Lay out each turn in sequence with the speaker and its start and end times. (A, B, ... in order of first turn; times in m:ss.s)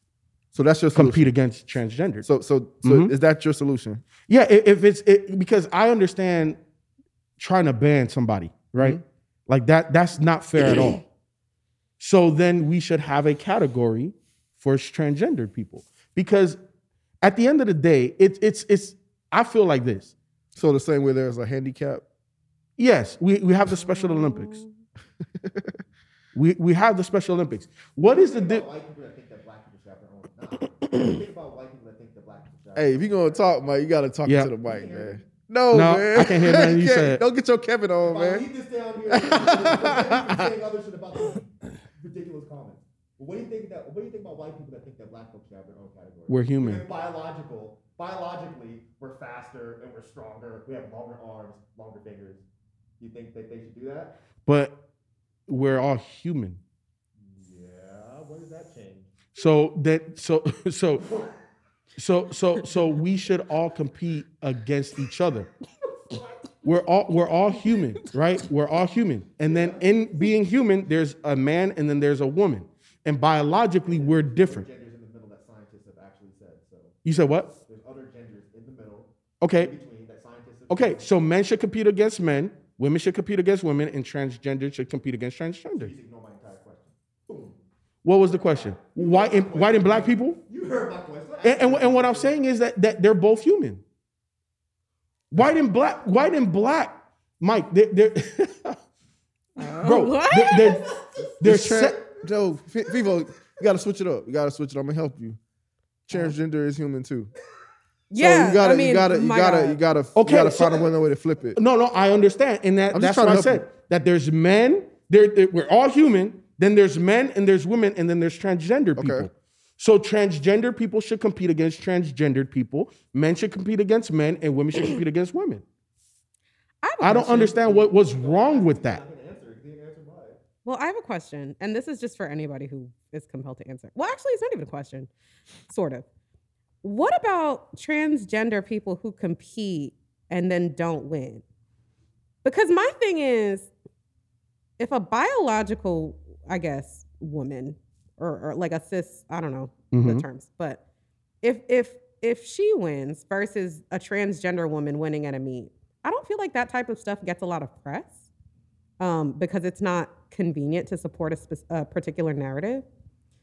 0:00.5-0:01.4 A
0:01.0-0:02.2 B
0:02.2-0:04.1 A
0:02.8-0:03.1 B
0:04.2-0:06.6 B
0:07.4-0:11.0 B
0:12.0-0:16.6 B
0:17.2-0:20.1 B
0:20.6-0:22.0 A
0:22.8-0:24.6 B
0:23.7-0:24.7 C
0:25.4-0:25.7 A
0:26.3-0:28.6 B
0:28.0-0:33.2 D
0:32.8-0:38.5 A
0:34.3-0:34.5 B
0:34.6-0:35.2 D
0:35.7-0:37.2 B
0:38.0-0:52.4 D
0:39.1-0:40.5 A
0:46.3-0:46.8 B
0:53.0-0:54.2 D
0:54.5-0:54.8 B
0:55.5-0:56.6 B
0:57.2-0:59.2 D
0:59.3-1:01.1 B
1:02.0-1:05.5 B
1:06.1-1:06.7 D
1:06.6-1:14.7 B
1:09.4-1:10.3 D
1:13.8-1:17.0 D
1:17.0-1:17.5 B
1:17.6-1:21.1 D
1:19.4-1:19.7 B
1:20.7-1:25.9 B
1:25.8-1:27.5 D
1:28.0-1:30.4 B
1:28.4-1:32.4 D
1:31.4-1:33.8 B
1:35.3-1:38.8 B
1:39.6-1:40.8 C
1:39.8-1:40.9 B
1:40.8-1:41.4 D
1:41.4-1:42.0 B
1:41.4-1:45.4 A
1:42.0-1:42.2 D
1:46.1-1:47.3 A
1:48.1-1:49.8 C
1:48.2-1:51.6 A
1:50.2-1:50.8 B
1:51.6-2:05.6 B
1:52.9-1:53.6 A
1:59.0-1:59.3 A
2:06.8-2:07.4 C
2:07.0-2:09.0 B
2:07.1-2:10.4 D
2:10.6-2:15.1 C
2:15.7-2:16.0 C
2:16.8-2:21.4 C
2:22.4-2:23.7 C
2:24.8-2:30.8 C
2:29.9-2:30.2 B
2:31.4-2:38.2 C
2:39.0-2:42.8 C